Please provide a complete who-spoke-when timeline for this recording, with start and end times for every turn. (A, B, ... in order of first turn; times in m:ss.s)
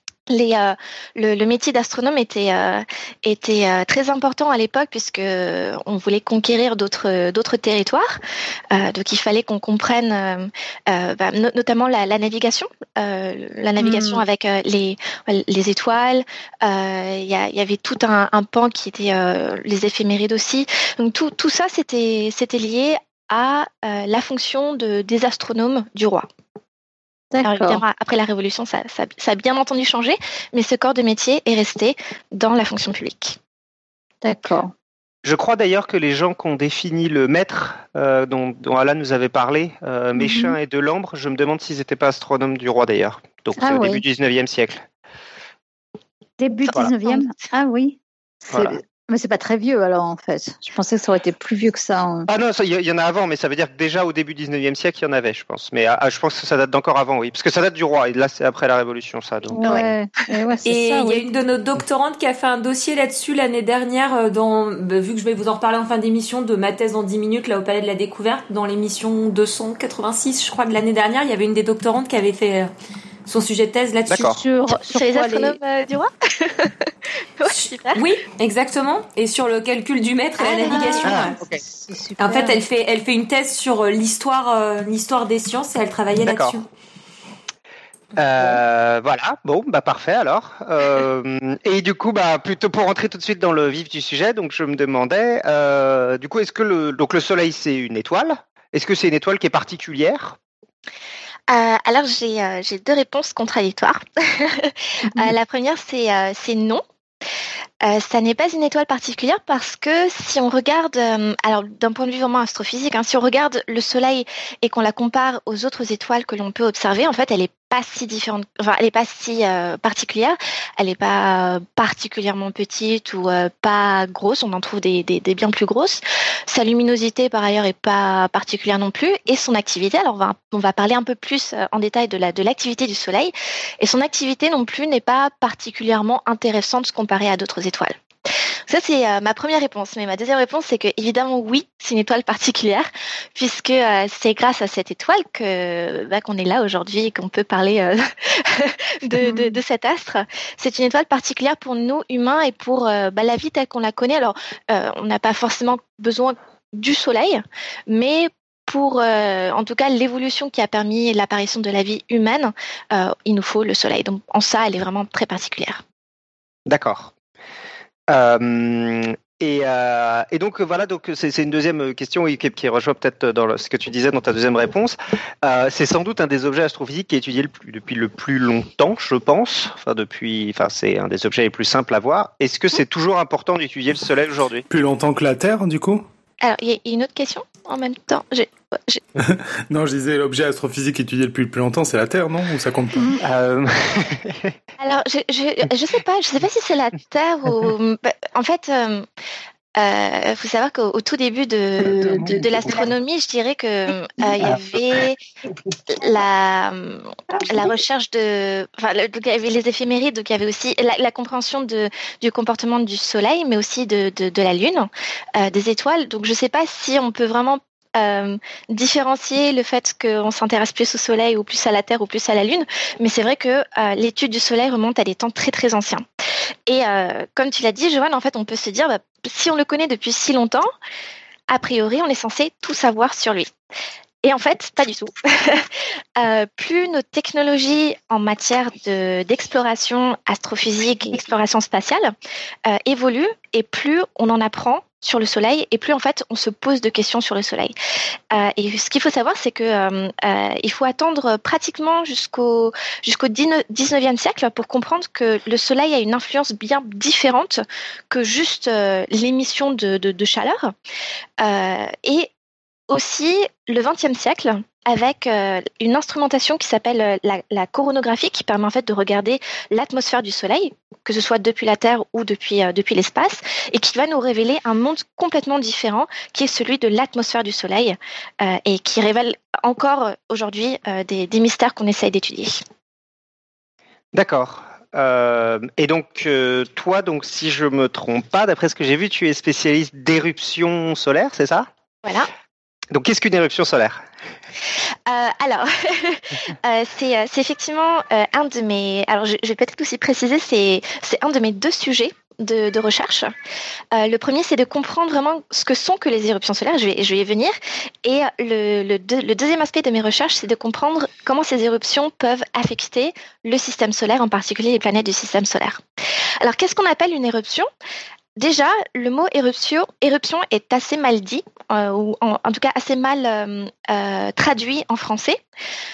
0:00.3-0:08.2 A
0:08.7-0:26.2 A
0:13.8-0:14.2 B
0:27.3-0:27.8 B
0:27.4-0:33.4 A
0:34.2-0:34.7 B
0:35.2-0:44.8 C
0:40.2-0:40.6 B
0:43.6-0:44.0 B
0:46.4-0:52.3 B
0:47.1-0:47.4 A
0:48.5-0:48.8 C
0:52.3-0:59.9 C
0:59.5-1:01.2 B
1:00.6-1:12.7 D
1:13.2-1:14.3 D
1:14.1-1:14.4 C
1:14.2-1:15.6 B
1:14.7-1:18.0 A
1:17.5-1:21.4 D
1:20.6-1:22.6 B
1:21.0-1:21.6 C
1:22.2-1:26.6 D
1:26.2-1:26.6 C
1:28.2-1:40.4 C
1:41.5-1:46.8 A
1:47.8-2:17.9 A
2:18.7-2:45.8 A
2:29.2-2:29.6 B
2:46.6-2:47.1 C
2:48.1-3:04.6 C
3:04.7-3:06.0 E
3:06.4-3:09.0 A
3:09.2-3:13.1 E
3:13.2-3:14.5 C
3:14.8-3:19.0 A
3:19.8-3:25.2 A
3:21.9-3:22.9 C
3:24.4-3:24.8 C
3:25.9-3:46.0 A
3:46.7-3:50.7 A
3:51.5-3:53.5 A
3:54.2-4:02.1 A
4:02.6-4:07.8 A
4:08.3-4:20.7 A
4:21.4-4:22.3 A
4:22.9-4:42.6 A
4:44.1-4:51.7 C
4:52.0-4:52.3 A
4:52.9-4:54.0 C
4:55.1-5:03.3 A
5:03.9-5:15.8 A
5:16.4-5:17.7 A
5:18.4-5:25.4 A